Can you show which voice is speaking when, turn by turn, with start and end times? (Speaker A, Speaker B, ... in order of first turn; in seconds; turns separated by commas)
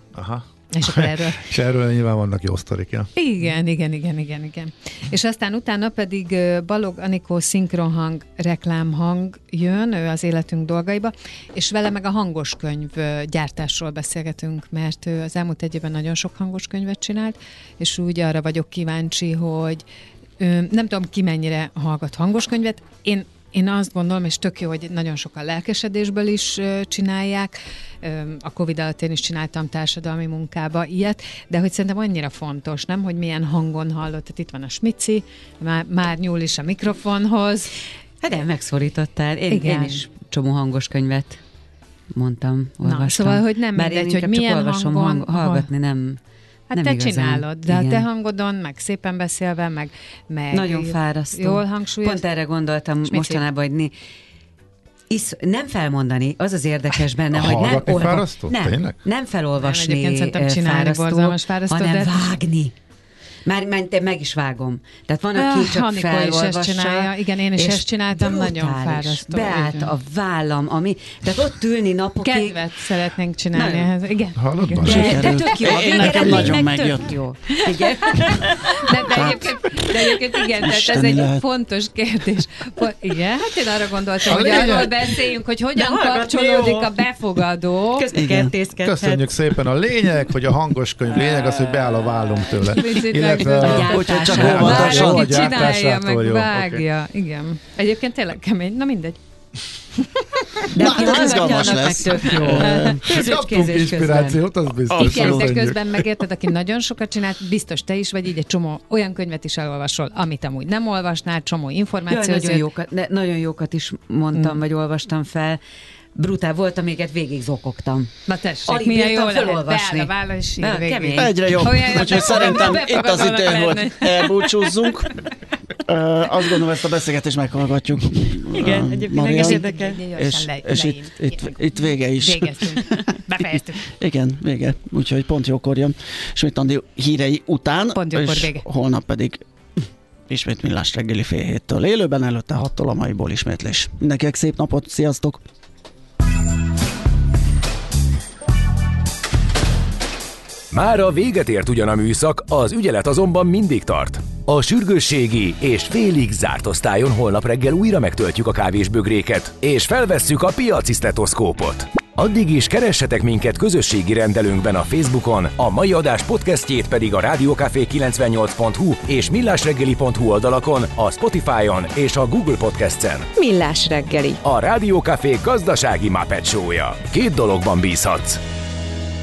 Speaker A: 0.1-3.1, Speaker B: 0.7-1.4, Speaker B: 3.1-19.8, Speaker B: 20.4-37.7, Speaker C: 38.2-41.4, Speaker B: 39.5-40.1, Speaker C: 42.1-46.2, Speaker B: 42.8-45.7, Speaker B: 46.7-52.3, Speaker C: 46.8-48.0, Speaker C: 50.5-53.9, Speaker B: 53.1-53.4, Speaker C: 55.1-62.7, Speaker A: 57.3-59.0, Speaker B: 59.6-62.3, Speaker C: 63.5-72.6, Speaker B: 65.3-69.9, Speaker B: 72.2-76.2, Speaker C: 73.5-73.9, Speaker A: 74.4-75.2, Speaker C: 74.8-79.4, Speaker D: 74.8-77.2, Speaker B: 77.7-88.1, Speaker D: 79.1-79.5, Speaker D: 80.6-81.4, Speaker A: 84.3-85.1, Speaker C: 85.8-87.0, Speaker C: 88.0-89.6, Speaker D: 88.1-88.5, Speaker A: 88.8-96.8, Speaker C: 91.2-91.8, Speaker B: 92.7-99.2, Speaker C: 93.5-95.3, Speaker D: 93.8-95.3, Speaker B: 100.7-102.7, Speaker C: 100.7-104.5, Speaker D: 100.8-103.1, Speaker A: 102.3-106.0, Speaker D: 104.9-105.5, Speaker B: 104.9-112.6, Speaker C: 112.1-115.6, Speaker C: 116.1-122.7, Speaker B: 118.2-124.7, Speaker D: 121.2-125.1, Speaker D: 125.8-133.1, Speaker C: 128.5-130.0, Speaker B: 129.2-133.8, Speaker D: 133.9-139.4, Speaker B: 137.9-138.7, Speaker D: 140.3-145.4, Speaker E: 150.7-173.3, Speaker B: 173.3-174.4, Speaker E: 174.4-178.4